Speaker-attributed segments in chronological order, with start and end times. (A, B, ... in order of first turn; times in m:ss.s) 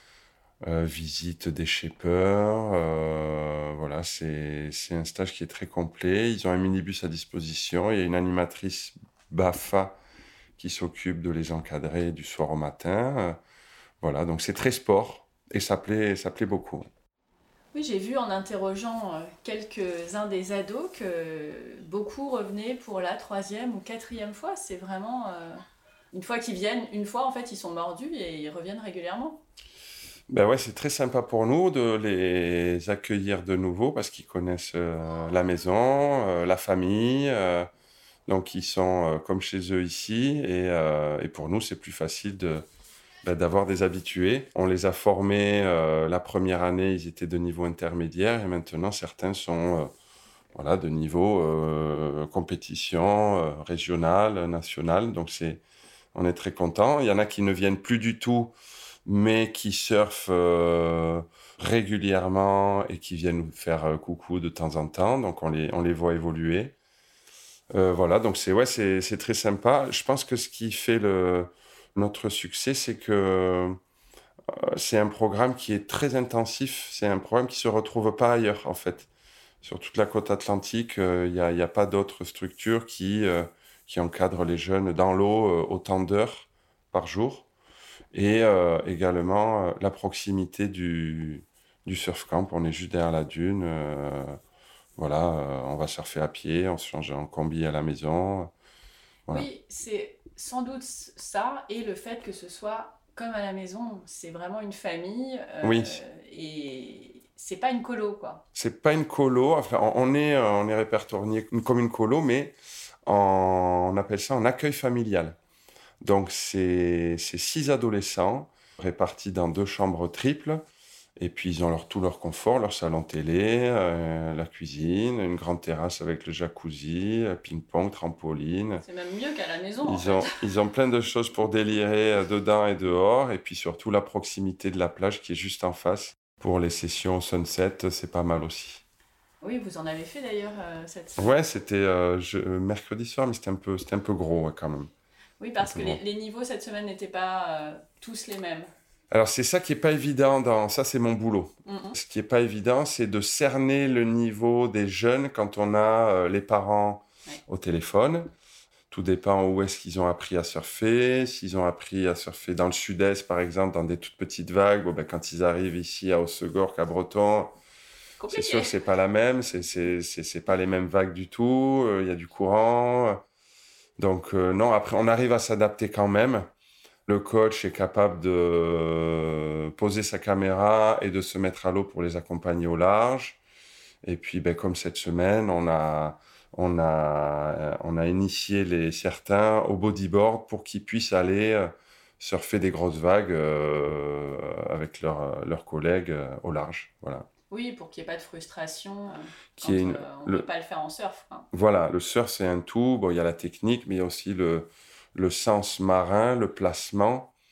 0:00.6-0:10.0 A
0:10.6-0:13.4 A
0:14.0-0:16.8 A
0:17.7-0:29.4 B
0:30.3-0:37.7 A
0:38.3-0:42.6 A
0:43.2-0:49.9 A
0:50.5-0:55.6 A
0:56.1-0:58.5 A
0:59.0-1:06.7 A
1:07.7-1:13.8 A
1:14.5-1:19.1 A
1:19.6-1:27.5 A
1:28.1-1:34.4 A
1:35.0-1:38.5 A
1:39.3-1:48.4 B
1:45.6-1:46.0 A
1:48.5-1:52.5 A
1:53.0-1:55.4 A
1:56.0-2:00.6 A
2:01.2-2:08.8 A
2:08.8-2:10.4 B
2:09.8-2:18.8 A
2:19.4-2:21.4 B
2:21.2-2:24.9 A
2:25.4-2:28.7 B
2:25.6-2:26.0 A
2:29.1-2:38.3 A
2:31.6-2:32.0 B
2:38.9-2:47.5 A
2:48.2-2:48.7 B
2:48.3-2:53.2 A
2:54.0-2:56.5 A
2:57.1-3:03.4 A
3:04.0-3:17.3 A
3:17.5-3:21.5 B
3:19.6-3:20.5 A
3:21.5-3:27.3 A